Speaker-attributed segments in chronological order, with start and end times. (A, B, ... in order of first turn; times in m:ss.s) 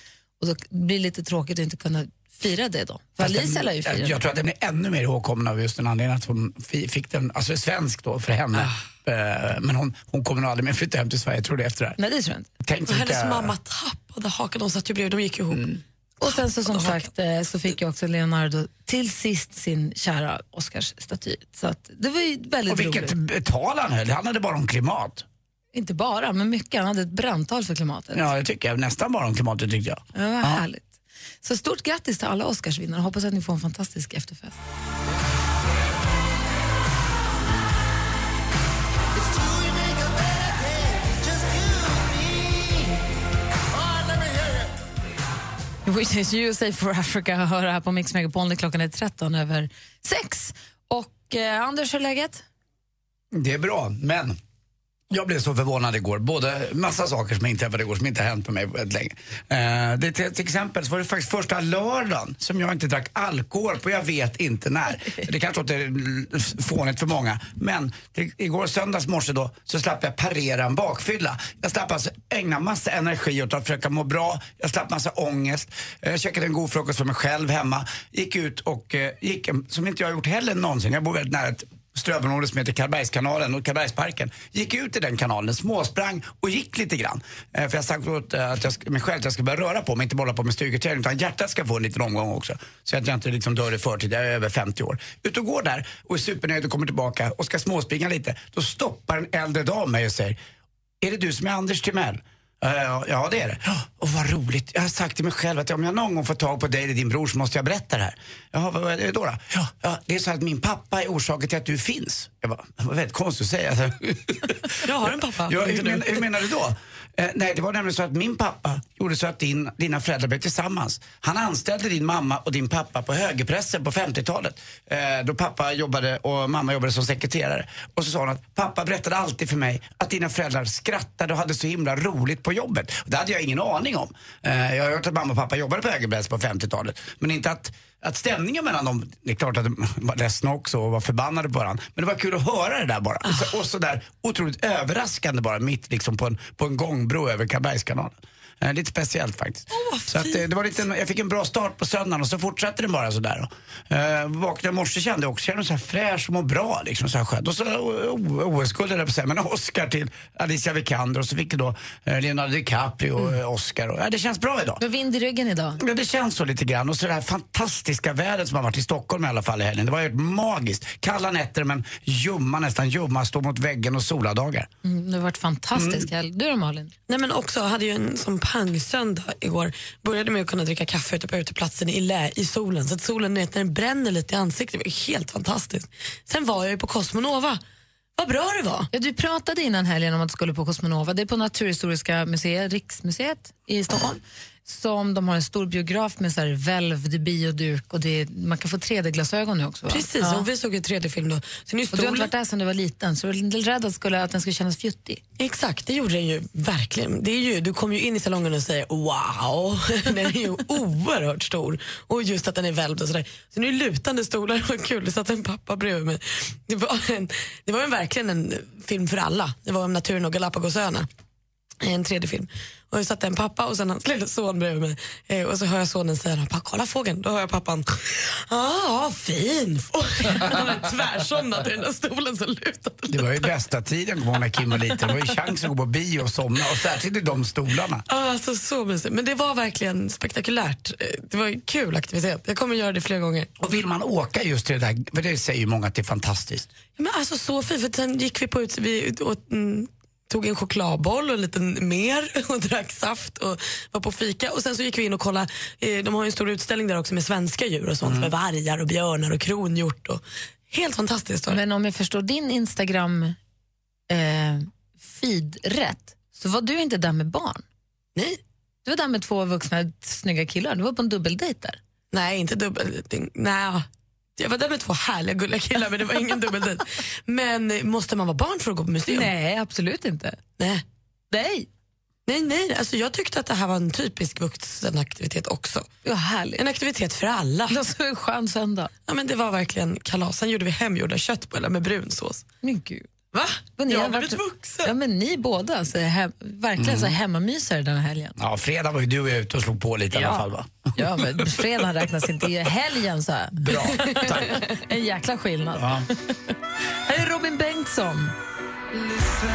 0:00.4-0:04.2 A
0:03.2-0:12.0 B
0:12.0-0:12.5 A
0:12.6-0:13.5 B
0:12.9-0:15.7 C
0:15.5-0:15.8 B
0:16.2-0:23.2 A
0:16.3-0:17.0 C
0:22.7-0:25.2 B
0:25.7-0:28.3 A
0:28.1-0:30.6 B
0:30.1-0:34.6 A
0:45.8-0:52.4 A
0:53.3-0:54.4 B
0:55.1-1:40.4 B
1:41.0-2:44.8 B
1:54.7-1:56.3 C
2:29.7-2:30.5 C
2:44.8-2:45.8 A
2:45.8-2:54.7 B
2:54.8-2:56.9 A
2:55.7-2:56.1 B
2:57.1-3:07.6 C
3:08.2-3:08.9 C
3:08.9-3:20.5 A
3:19.9-3:22.3 C
3:21.9-3:25.2 A
3:25.4-3:41.1 C
3:41.8-3:53.5 C
3:53.1-3:58.0 B
3:58.1-4:03.5 C
4:03.6-4:06.7 B
4:07.0-4:21.6 C
4:18.0-4:18.3 B
4:21.5-4:23.4 A
4:24.1-4:27.6 A
4:28.8-4:31.8 A
4:32.1-4:33.8 C
4:34.4-4:39.3 C
4:39.1-4:40.4 A
4:40.6-4:40.8 C
4:41.3-4:41.7 A
4:42.3-4:45.9 C
4:46.0-4:46.6 A
4:46.6-4:47.8 C
4:47.7-4:48.9 A
4:49.1-4:52.4 C
4:52.6-4:53.1 A
4:53.3-4:54.9 C
4:53.8-4:58.4 A
4:56.8-4:57.2 B
4:58.4-5:01.5 B
5:00.1-5:00.4 A
5:00.9-5:06.5 A
5:03.6-5:04.6 B
5:05.7-5:06.1 B
5:07.0-5:08.3 A